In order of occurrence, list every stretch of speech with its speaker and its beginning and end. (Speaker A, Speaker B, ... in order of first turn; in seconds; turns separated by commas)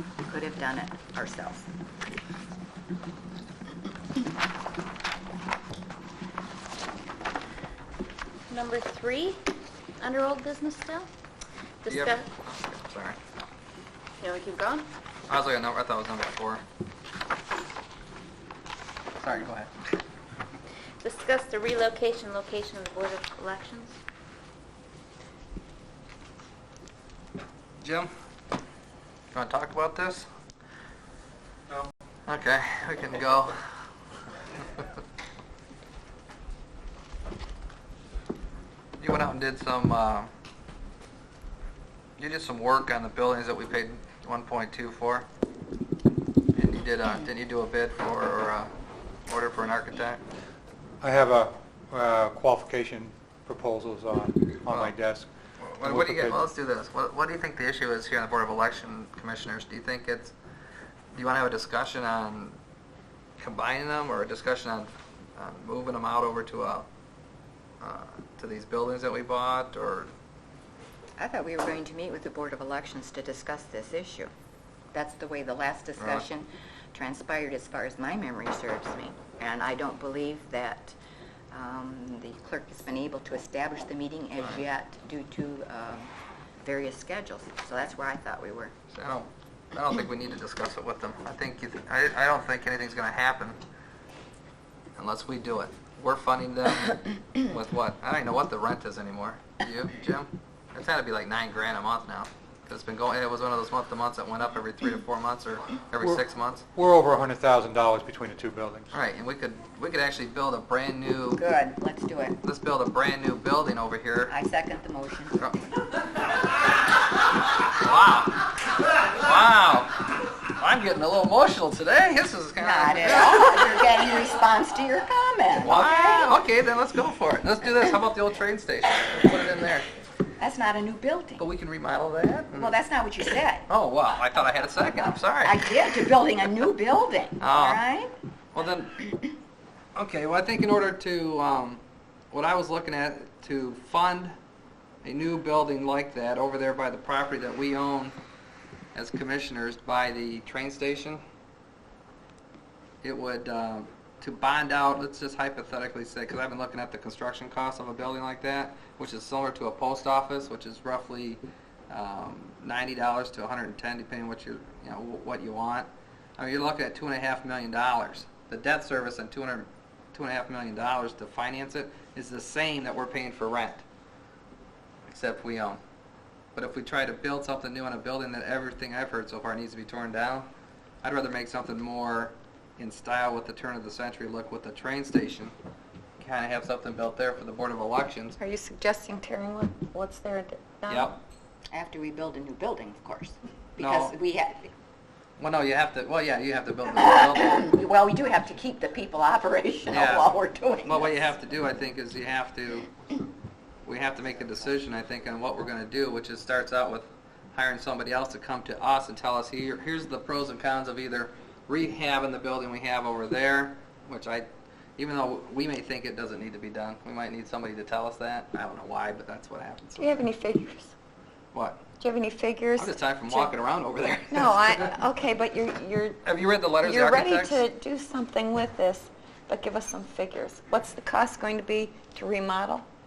Speaker A: 0.2-1.7, Speaker B: 8.5-8.8, Speaker C: 8.5-9.4, Speaker C: 10.0-11.1, Speaker C: 11.8-12.2, Speaker D: 11.9-13.2, Speaker C: 14.2-14.8, Speaker B: 14.2-14.8, Speaker D: 15.3-16.6, Speaker D: 19.2-19.7, Speaker C: 21.0-24.0, Speaker B: 22.1-22.9, Speaker D: 27.8-28.1, Speaker D: 29.3-30.3, Speaker D: 32.3-33.6, Speaker D: 39.0-40.3, Speaker D: 42.2-45.3, Speaker D: 46.5-48.7, Speaker D: 49.3-50.2, Speaker E: 51.0-55.3, Speaker D: 54.7-54.9, Speaker D: 55.6-60.3, Speaker E: 55.8-56.4, Speaker D: 61.1-62.5, Speaker D: 63.4-66.9, Speaker D: 67.8-70.1, Speaker A: 71.2-74.3, Speaker A: 74.9-81.0, Speaker D: 76.0-76.2, Speaker A: 81.5-88.7, Speaker D: 88.9-93.6, Speaker D: 95.0-106.6, Speaker E: 106.7-108.9, Speaker D: 108.9-111.4, Speaker A: 111.3-112.4, Speaker D: 112.4-114.3, Speaker A: 114.3-115.4, Speaker D: 115.4-115.7, Speaker D: 117.8-118.5, Speaker D: 119.1-120.0, Speaker D: 120.5-123.7, Speaker A: 122.6-126.4, Speaker D: 125.6-129.8, Speaker A: 130.4-131.4, Speaker D: 131.4-132.7, Speaker A: 132.5-133.7, Speaker D: 133.7-135.7, Speaker A: 135.4-138.1, Speaker D: 137.4-137.8, Speaker D: 138.5-139.1, Speaker D: 139.9-141.8, Speaker D: 142.3-144.3, Speaker D: 145.0-148.1, Speaker D: 148.9-151.2, Speaker D: 153.0-173.8, Speaker D: 175.1-175.8, Speaker D: 176.5-180.5, Speaker D: 181.0-185.5, Speaker D: 186.2-188.4, Speaker B: 188.4-191.1, Speaker D: 190.9-191.2, Speaker A: 191.7-194.7, Speaker D: 193.8-194.1, Speaker D: 195.4-197.7, Speaker A: 196.9-201.3, Speaker D: 199.9-200.3, Speaker D: 200.8-202.9, Speaker D: 203.8-220.2, Speaker B: 220.0-220.9, Speaker D: 221.5-221.8, Speaker B: 222.0-223.5, Speaker D: 222.8-224.9, Speaker B: 224.3-226.2, Speaker D: 226.2-227.6, Speaker B: 226.8-232.8